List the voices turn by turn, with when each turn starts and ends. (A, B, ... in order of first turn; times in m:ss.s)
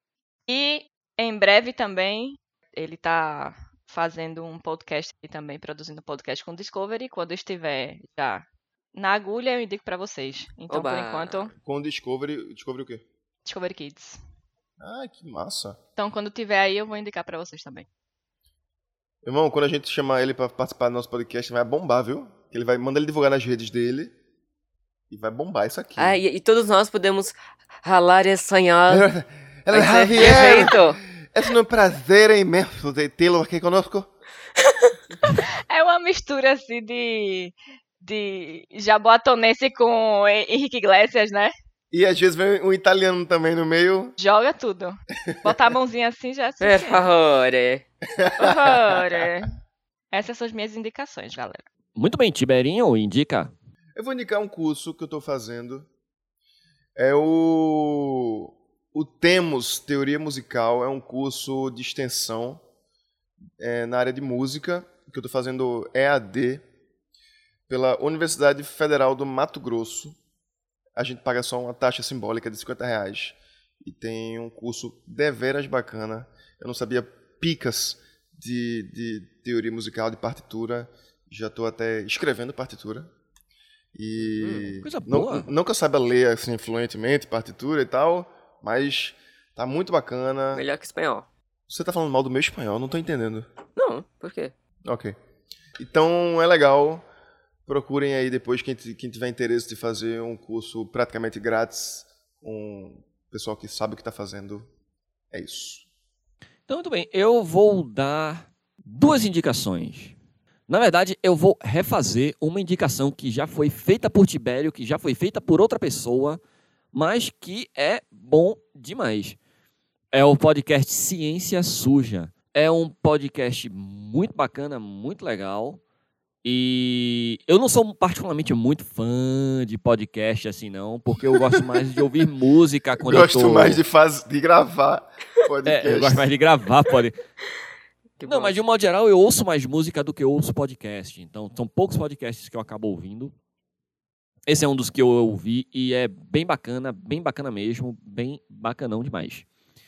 0:00.5-0:11.5 A
0:10.7-0:11.5 B
0:11.6-0:13.0 C
0:13.5-0:14.2 A
0:14.8-0:15.8 C
0:16.0-0:17.9 A
0:19.2-0:24.1 C
0:25.1-0:26.2 C
0:26.0-0:29.1 B
0:28.9-0:34.1 C
0:29.7-0:31.0 B
0:35.7-0:41.5 A
0:41.9-0:44.2 C
0:44.2-0:47.0 A
0:45.3-0:45.5 C
0:46.6-0:47.9 B
0:48.2-0:48.9 C
0:48.4-0:49.5 A
0:50.1-0:51.6 A
0:52.0-0:53.5 D
0:54.0-0:55.9 C
0:57.0-1:02.6 C
1:03.6-1:06.6 C
1:07.7-1:10.2 C
1:11.0-1:23.1 C
1:23.9-1:30.6 C
1:24.4-1:24.7 B
1:24.8-1:25.5 D
1:30.5-1:31.3 B
1:31.7-1:33.5 C
1:33.8-1:34.5 B
1:34.8-1:35.2 C
1:35.8-1:37.1 C
1:37.7-1:44.7 C
1:45.3-1:45.8 C
1:46.7-1:50.2 D
1:50.7-1:56.4 D
1:56.9-1:59.4 D
2:00.1-2:05.8 D
2:06.4-2:13.8 D
2:13.0-2:16.3 C
2:15.6-2:17.2 D
2:18.2-2:18.6 B
2:18.2-2:23.4 D
2:24.5-2:29.5 D